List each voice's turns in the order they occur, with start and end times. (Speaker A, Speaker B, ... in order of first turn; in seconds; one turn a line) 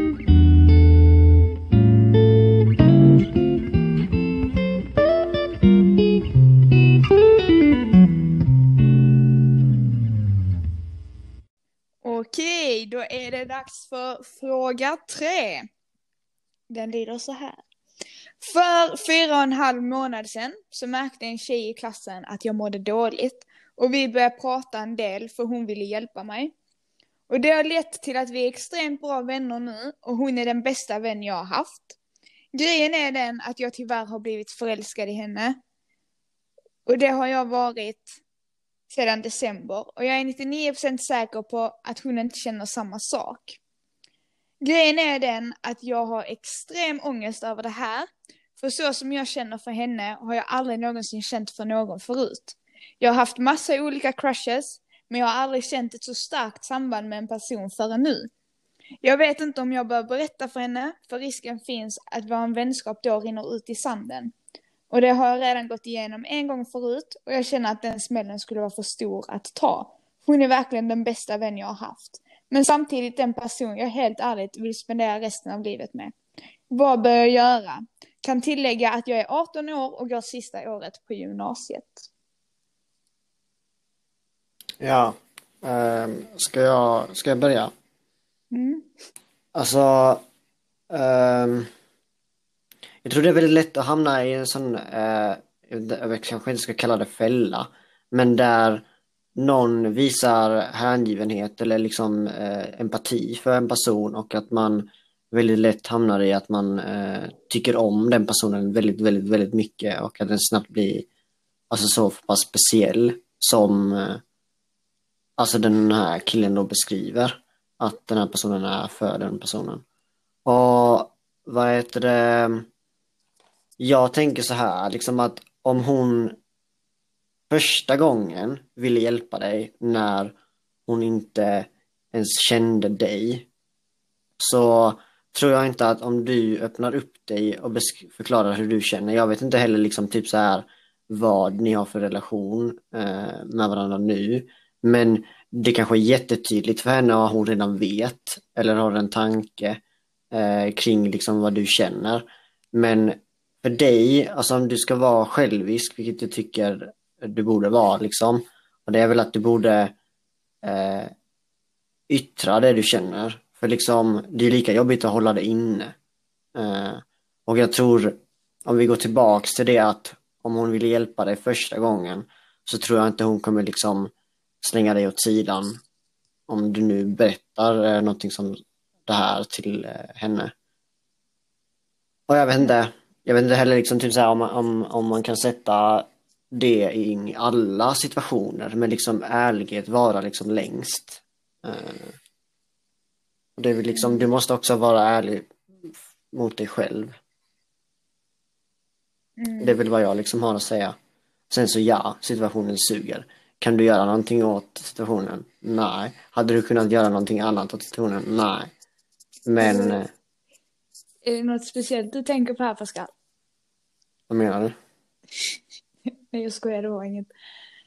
Speaker A: 12.0-15.7
Speaker A: 16.7-17.6
Speaker A: 18.4-26.5
Speaker A: 27.3-32.0
Speaker A: 32.5-35.6
Speaker A: 36.9-38.2
Speaker A: 38.9-43.6
Speaker A: 44.6-58.3
Speaker A: 59.0-64.3
Speaker A: 64.9-76.2
Speaker A: 76.7-82.1
Speaker B: 84.8-87.7
Speaker A: 88.5-88.9
Speaker B: 89.5-90.2
Speaker B: 90.9-91.7
Speaker B: 93.0-98.8
Speaker B: 99.4-111.1
Speaker B: 111.7-114.2
Speaker B: 115.4-119.8
Speaker B: 120.5-122.7
Speaker B: 123.8-126.4
Speaker B: 127.5-130.3
Speaker B: 130.9-133.5
Speaker B: 134.4-149.8
Speaker B: 150.3-159.9
Speaker B: 160.6-161.1
Speaker B: 162.1-165.9
Speaker B: 166.6-175.8
Speaker B: 176.5-180.5
Speaker B: 182.3-192.2
Speaker B: 193.6-197.1
Speaker A: 193.9-194.2
Speaker A: 199.4-199.8
Speaker B: 199.6-201.0
Speaker B: 201.5-208.7
Speaker B: 209.5-210.1
Speaker A: 209.6-210.0
Speaker A: 211.2-213.1
Speaker B: 214.3-214.8
Speaker A: 216.3-217.3